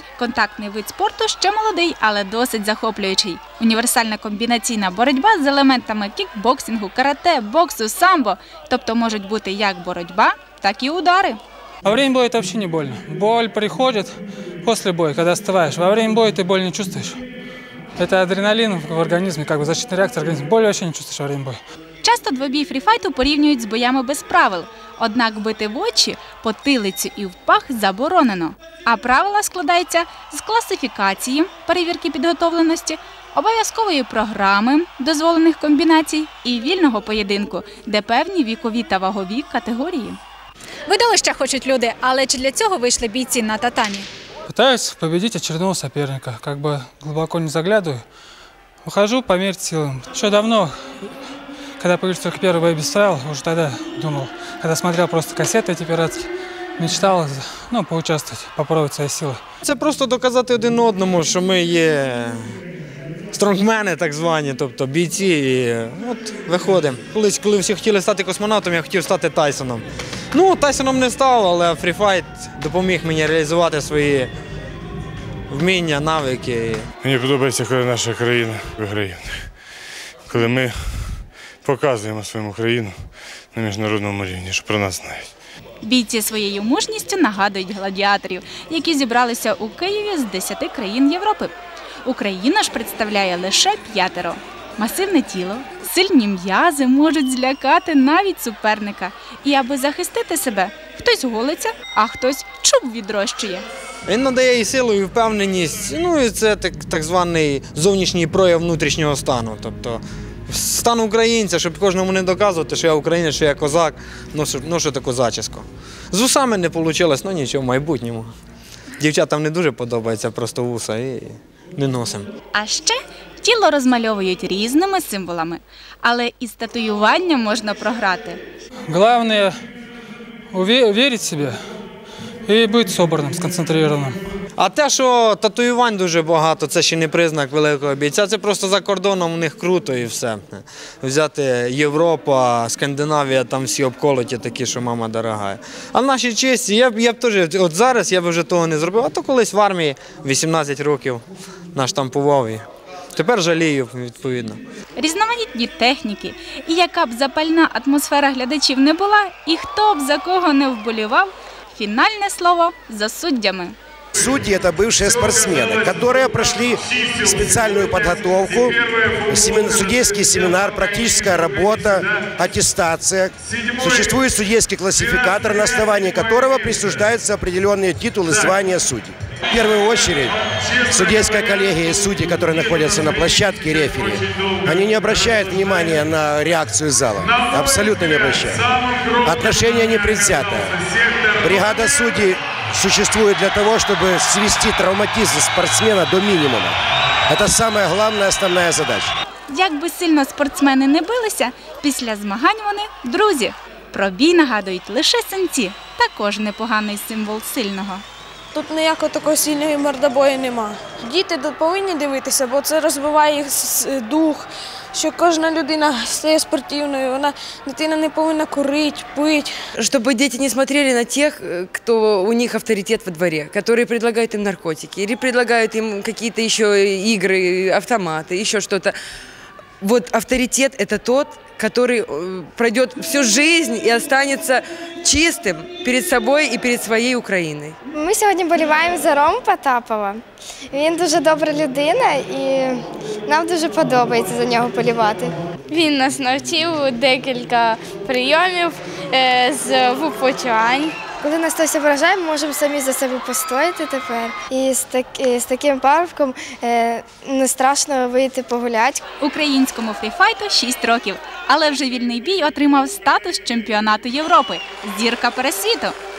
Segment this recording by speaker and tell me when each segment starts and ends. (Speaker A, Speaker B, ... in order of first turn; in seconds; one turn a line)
Speaker A: 0.2-11.4
Speaker B: 11.8-17.2
Speaker B: 18.0-21.6
Speaker A: 22.0-40.2
Speaker A: 40.9-44.1
Speaker B: 44.5-48.0
Speaker B: 48.8-50.7
Speaker B: 51.8-59.4
Speaker C: 59.6-62.5
Speaker C: 63.3-74.3
Speaker C: 75.5-76.9
Speaker D: 77.0-79.5
Speaker D: 80.3-83.0
Speaker D: 83.5-85.3
Speaker A: 85.8-91.5
Speaker A: 92.0-103.6
Speaker C: 104.0-118.3
Speaker C: 119.0-122.3
Speaker A: 122.5-128.4
Speaker B: 128.9-129.6
Speaker B: 130.5-131.6
Speaker B: 132.4-134.2
Speaker C: 134.6-151.2
Speaker C: 151.7-152.6
Speaker C: 153.1-154.6
Speaker A: 154.9-163.7
Speaker E: 164.1-190.8
Speaker E: 191.3-196.8
Speaker E: 197.3-199.1
Speaker A: 199.5-208.0
Speaker F: 208.5-219.5
Speaker G: 219.8-229.0
Speaker G: 229.8-237.8
Speaker H: 237.9-240.2
Speaker H: 240.7-245.3
Speaker I: 245.7-251.0
Speaker H: 251.2-259.0
Speaker A: 259.2-265.9